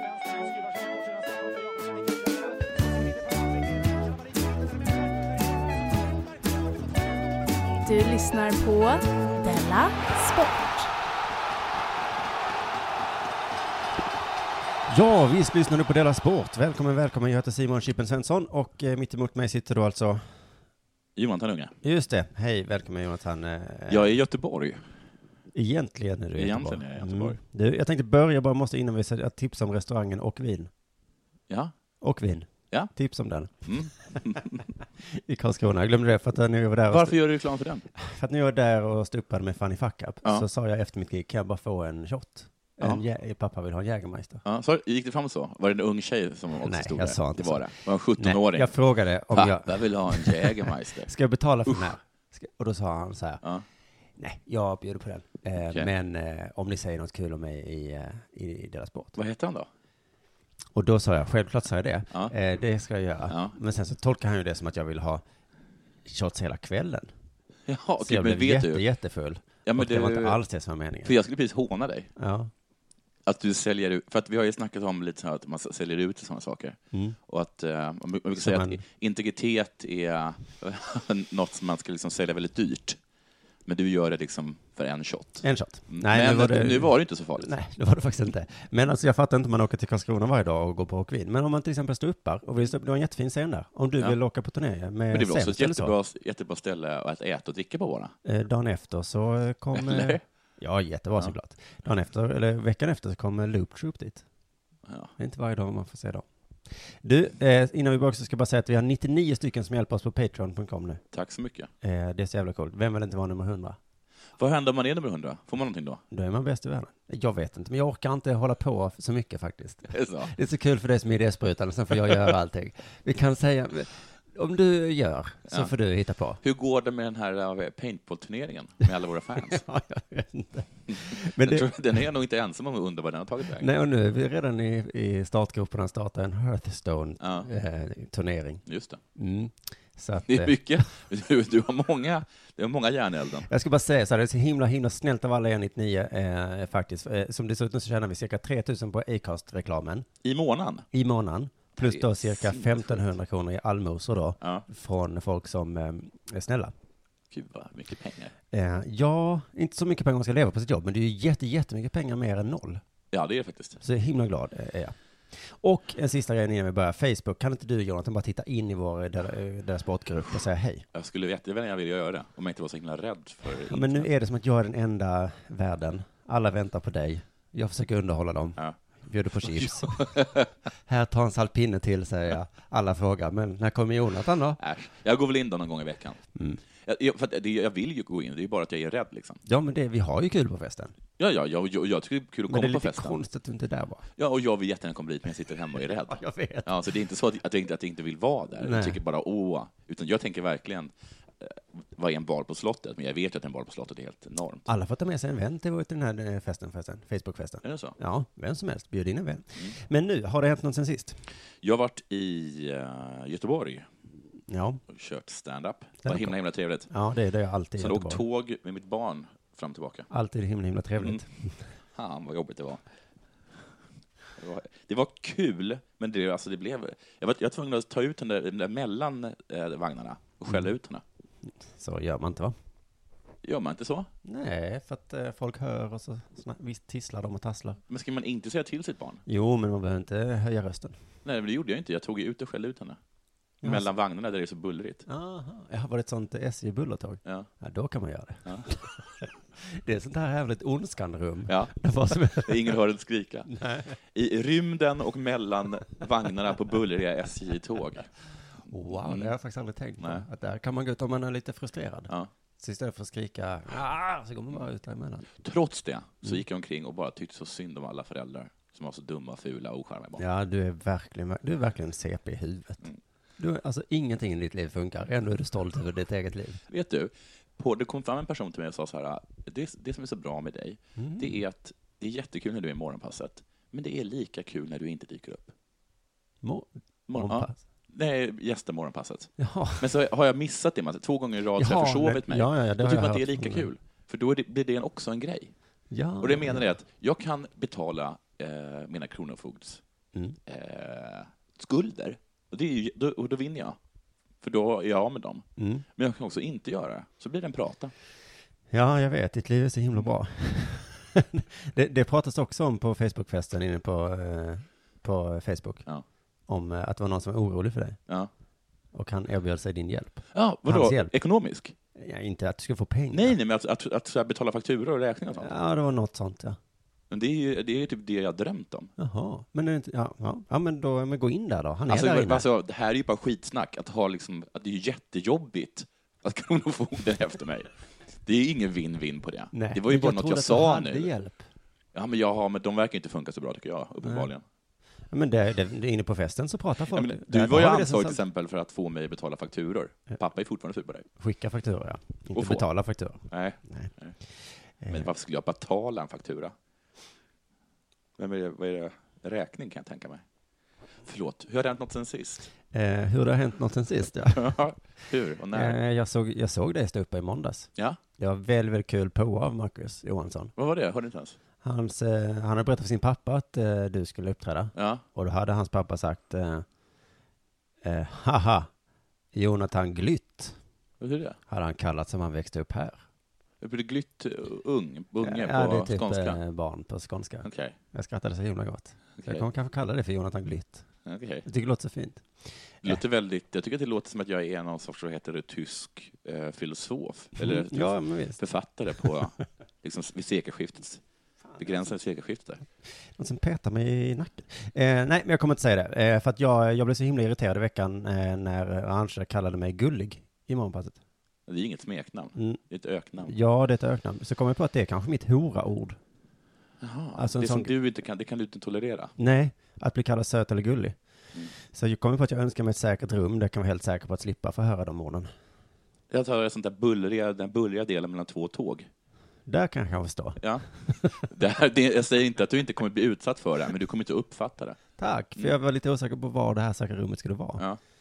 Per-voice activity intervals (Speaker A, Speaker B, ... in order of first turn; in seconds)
Speaker A: 7.8-10.9
Speaker B: 14.9-20.2, 21.8-24.2, 25.5-30.7, 32.0-34.4, 35.0-37.3, 37.9-44.4, 46.6-53.4, 54.2-59.2, 60.7-65.2, 66.0-67.1, 68.0-71.1, 72.2-72.5, 76.9-77.2, 78.3-78.8, 85.4-95.9, 98.2-104.2, 105.2-111.0, 111.8-113.8, 116.1-126.4, 129.4-131.7, 133.6-138.6, 139.1-140.8, 143.5-150.1, 150.9-156.7, 158.5-162.8, 163.8-170.8, 173.6-180.1, 180.9-184.6, 186.3-186.6, 189.4-190.9, 192.5-194.1, 196.1-196.8, 198.6-199.0, 204.7-211.2, 214.5-214.8, 216.0-216.3, 216.9-218.2, 220.1-221.6, 231.7-232.5, 234.2-237.8, 239.2-241.0, 243.6-243.9, 245.1-252.8, 253.5-254.0, 258.7-265.3, 270.2-272.9, 273.4-276.6, 281.0-281.4, 286.4-287.6, 289.4-289.8, 291.6-293.7, 295.9-296.6, 305.6-305.8, 308.7-315.9, 316.5-318.0, 318.9-321.1, 321.9-323.4, 325.4-326.6, 329.0-332.4, 339.5-341.4, 344.0-344.3, 345.1-348.2, 351.2-353.9, 354.8-355.1, 362.7-364.6, 365.5-370.5, 371.6-376.6, 377.8-378.7, 379.3-380.6, 381.5-383.0, 385.2-390.8, 391.4-393.0, 397.4-398.4, 403.0-411.0, 412.3-412.6, 413.3-416.0, 417.1-417.7, 419.2-421.0, 421.5-425.3, 429.5-431.3, 435.0-437.6
Speaker C: 21.1-21.7, 23.9-24.8, 26.4-27.4, 33.6-34.6, 36.9-37.9, 44.4-48.8, 49.3-51.1, 59.1-59.7, 63.3-63.5, 67.7-68.8, 69.6-70.4, 71.0-72.1, 73.2-83.0, 83.7-87.5, 95.1-98.1, 99.7-100.2, 104.9-105.1, 111.1-111.7, 114.4-116.0, 119.9-120.3, 122.0-122.3, 126.4-129.6, 130.9-133.7, 137.2-137.5, 138.7-139.0, 140.3-143.5, 150.2-150.8, 151.8-153.1, 157.3-158.3, 163.1-163.8, 170.9-174.1, 179.4-180.5, 184.6-186.2, 186.8-189.4, 191.2-193.2, 194.2-204.7, 207.6-207.9, 211.6-213.9, 214.9-216.9, 217.8-220.1, 221.9-222.8, 224.4-231.0, 233.4-234.1, 237.9-239.2, 241.2-243.0, 243.6-245.0, 251.5-251.7, 252.3-253.5, 254.0-258.1, 258.9-259.3, 265.4-270.2, 276.7-285.5, 287.1-295.5, 296.2-299.8, 300.4-303.8, 304.4-305.4, 305.9-307.9, 320.3-321.7, 323.1-325.5, 327.1-328.9, 331.9-337.7, 338.2-341.1, 341.9-344.4, 346.9-351.0, 352.3-352.6, 353.3-354.1, 354.9-356.5, 358.2-360.2, 361.0-362.5, 364.3-365.8, 370.6-371.4, 374.7-375.0, 381.0-381.4, 383.6-386.4, 387.4-387.8, 389.2-389.4, 391.1-391.4, 392.8-401.0, 401.6-402.6, 411.5-413.3, 416.8-419.1, 426.1-428.9, 430.4-430.6, 431.2-434.8